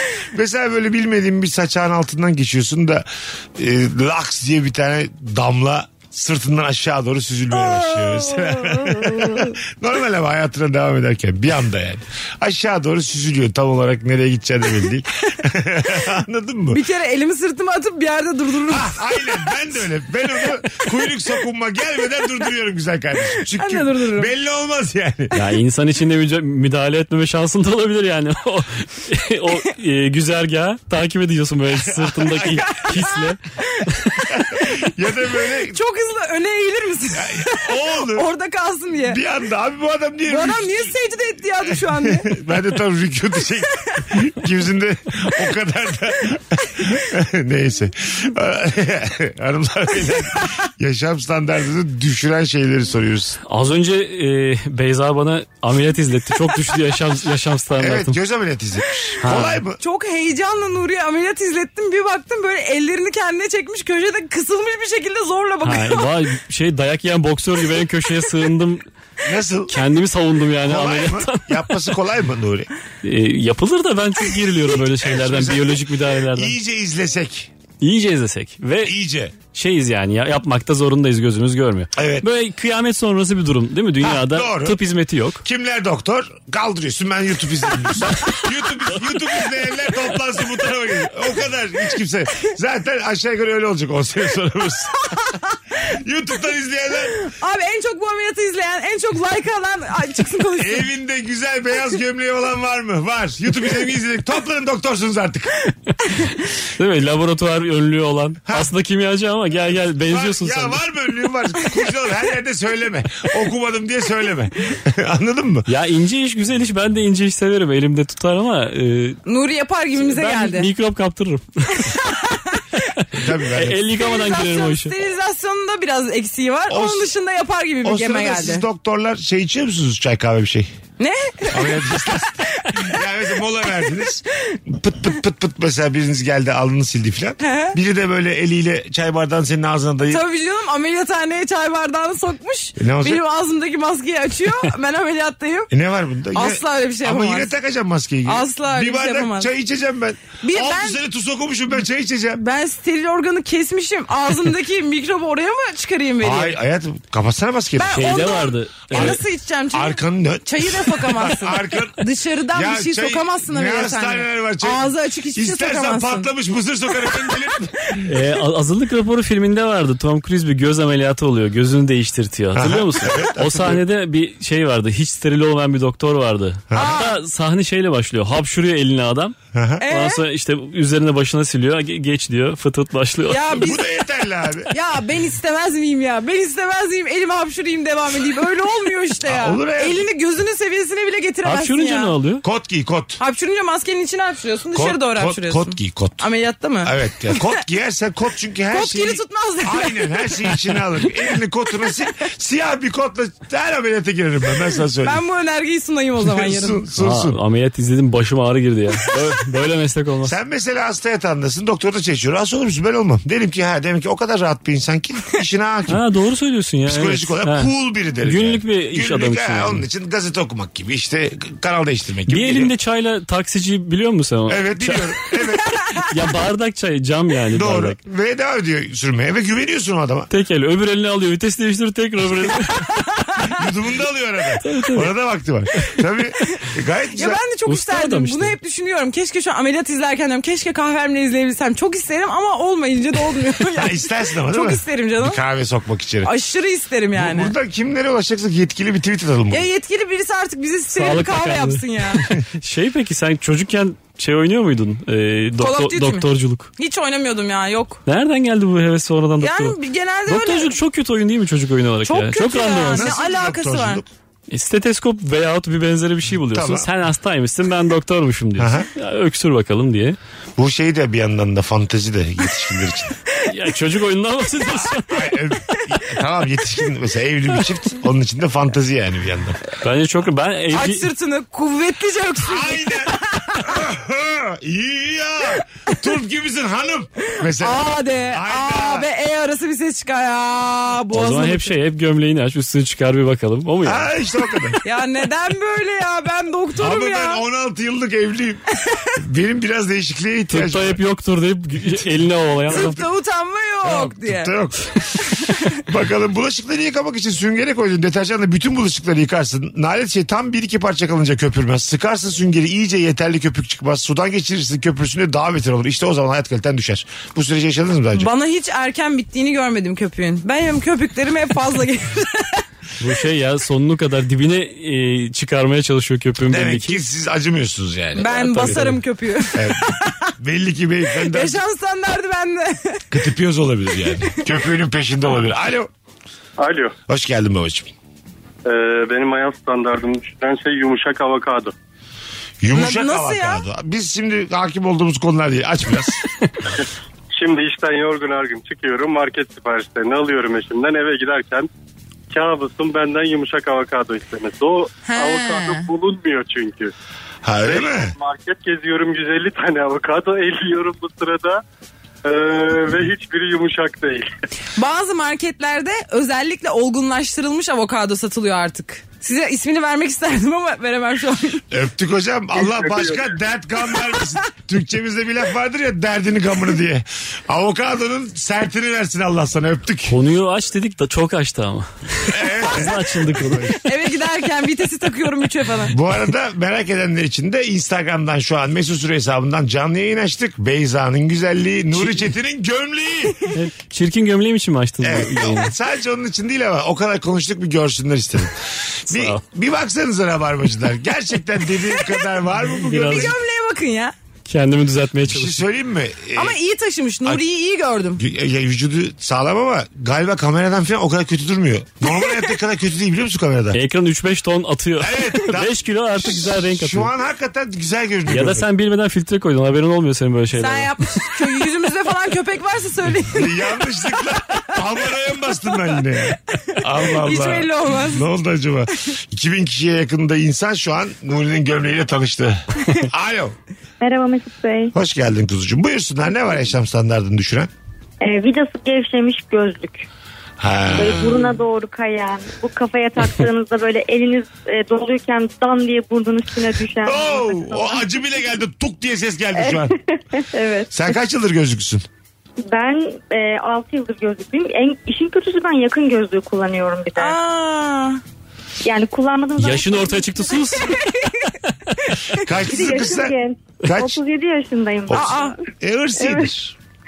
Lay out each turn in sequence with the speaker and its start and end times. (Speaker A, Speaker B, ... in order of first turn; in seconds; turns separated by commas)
Speaker A: 0.3-16.8, Speaker B: 7.5-9.6, Speaker B: 16.7-19.4, Speaker A: 18.7-25.3, Speaker B: 23.5-24.3, Speaker C: 25.3-34.3, Speaker A: 31.9-32.6, Speaker B: 32.6-33.2, Speaker A: 34.3-35.8, Speaker B: 35.7-39.2, Speaker A: 37.1-38.3, Speaker A: 39.0-40.9, Speaker B: 40.3-42.3, Speaker A: 41.8-53.4, Speaker C: 53.5-58.2, Speaker A: 57.8-59.8, Speaker C: 59.2-59.6, Speaker B: 59.8-66.1, Speaker C: 65.6-68.8, Speaker A: 69.2-69.8, Speaker C: 69.7-71.9, Speaker A: 70.6-72.7, Speaker C: 73.0-76.5, Speaker A: 75.0-77.5, Speaker C: 77.8-78.9, Speaker A: 78.8-79.3, Speaker C: 79.5-85.4, Speaker A: 82.0-82.2, Speaker A: 84.0-84.8, Speaker A: 85.4-95.3, Speaker B: 95.1-95.5, Speaker A: 95.8-97.2, Speaker B: 97.2-100.9, Speaker A: 100.6-105.5, Speaker C: 106.8-110.8, Speaker A: 110.1-115.7, Speaker C: 115.7-119.2, Speaker B: 119.2-120.7, Speaker C: 120.0-122.0, Speaker B: 121.7-122.6, Speaker C: 123.1-124.9, Speaker A: 123.1-123.8, Speaker B: 123.9-128.6, Speaker A: 126.7-127.1, Speaker A: 127.8-130.7, Speaker B: 131.0-132.9, Speaker A: 131.5-140.2, Speaker B: 137.4-137.8, Speaker B: 140.1-145.7, Speaker A: 142.8-143.2, Speaker A: 145.7-152.4, Speaker B: 146.3-147.5, Speaker B: 148.2-149.5, Speaker B: 150.4-151.0, Speaker B: 152.3-156.6, Speaker A: 156.2-158.2, Speaker B: 157.8-166.3, Speaker C: 157.9-159.2, Speaker A: 158.9-159.2, Speaker A: 159.7-168.0, Speaker C: 168.1-183.5, Speaker A: 172.5-173.8, Speaker A: 176.7-177.0, Speaker B: 176.7-177.1, Speaker A: 179.5-179.8, Speaker B: 179.8-180.2, Speaker B: 183.3-183.8, Speaker A: 183.5-184.7, Speaker B: 184.7-192.1, Speaker A: 189.2-190.0, Speaker C: 191.4-192.4, Speaker A: 192.4-193.2, Speaker B: 193.2-197.4, Speaker A: 194.7-196.3, Speaker A: 196.8-205.2, Speaker B: 198.7-200.6, Speaker B: 205.0-206.8, Speaker A: 206.2-207.4, Speaker C: 207.0-210.3, Speaker A: 210.2-216.0, Speaker C: 215.9-217.7, Speaker A: 216.8-222.7, Speaker C: 218.2-219.8, Speaker C: 222.3-225.2, Speaker A: 224.5-225.8, Speaker C: 226.1-228.0, Speaker A: 227.5-230.3, Speaker C: 230.3-232.9, Speaker A: 233.4-237.4, Speaker C: 234.6-235.1, Speaker B: 237.2-245.4, Speaker C: 237.7-238.6, Speaker A: 243.7-246.3, Speaker B: 246.2-247.5, Speaker A: 247.1-249.7, Speaker B: 249.5-252.2, Speaker C: 250.9-256.7, Speaker B: 255.6-258.0, Speaker C: 258.1-263.1, Speaker B: 259.4-260.8, Speaker B: 262.0-264.0, Speaker A: 262.9-264.1, Speaker C: 264.5-270.2, Speaker A: 266.5-266.9, Speaker A: 268.6-268.9, Speaker A: 270.6-273.2, Speaker C: 273.4-275.4, Speaker A: 275.1-279.6, Speaker C: 279.8-281.1, Speaker B: 280.7-283.7, Speaker A: 282.4-289.1, Speaker B: 287.6-291.7, Speaker C: 291.1-294.1, Speaker A: 293.8-294.8, Speaker B: 294.8-297.4, Speaker A: 296.8-298.6, Speaker A: 299.1-301.0, Speaker C: 300.5-303.0, Speaker A: 302.7-303.0, Speaker B: 302.7-304.5, Speaker A: 303.8-305.0, Speaker B: 305.5-305.8, Speaker A: 305.8-318.3, Speaker B: 318.1-322.6, Speaker C: 323.0-327.0, Speaker A: 326.5-328.8, Speaker B: 328.1-330.3, Speaker C: 328.3-329.0, Speaker A: 329.5-331.6, Speaker B: 331.2-333.1, Speaker A: 333.1-335.9, Speaker D: 336.6-336.9, Speaker A: 337.1-337.9, Speaker D: 338.6-341.7, Speaker A: 342.6-346.2, Speaker B: 342.7-343.6, Speaker D: 347.4-351.7, Speaker D: 352.3-356.9, Speaker B: 355.0-355.9, Speaker A: 357.4-358.1, Speaker D: 357.6-361.6, Speaker D: 362.2-364.3, Speaker B: 364.7-371.6, Speaker A: 371.7-380.2, Speaker D: 372.6-373.3, Speaker C: 380.1-383.7, Speaker A: 382.3-383.8, Speaker B: 383.8-385.9, Speaker A: 385.9-393.5, Speaker C: 391.9-392.2, Speaker C: 393.5-395.7, Speaker A: 395.0-403.4, Speaker C: 399.1-399.4, Speaker B: 401.8-402.2, Speaker C: 402.8-403.3, Speaker B: 403.1-404.1, Speaker C: 404.4-405.6, Speaker A: 405.2-406.6, Speaker B: 406.3-408.2, Speaker A: 408.2-413.8, Speaker C: 413.7-417.1, Speaker A: 415.0-418.7, Speaker C: 418.3-421.5, Speaker B: 420.6-424.3, Speaker A: 423.3-433.6, Speaker B: 426.7-428.2, Speaker E: 434.0-434.9, Speaker A: 434.9-437.7, Speaker E: 438.2-440.1, Speaker A: 440.6-441.6, Speaker E: 440.9-448.0, Speaker A: 447.0-449.9, Speaker E: 449.6-451.0, Speaker A: 450.9-452.1, Speaker E: 452.6-457.4, Speaker B: 457.1-458.2, Speaker E: 458.8-460.7, Speaker C: 459.6-461.0, Speaker B: 460.8-462.4, Speaker A: 462.4-464.2, Speaker E: 462.5-465.5, Speaker A: 465.1-466.7, Speaker B: 465.1-465.5, Speaker E: 466.2-466.5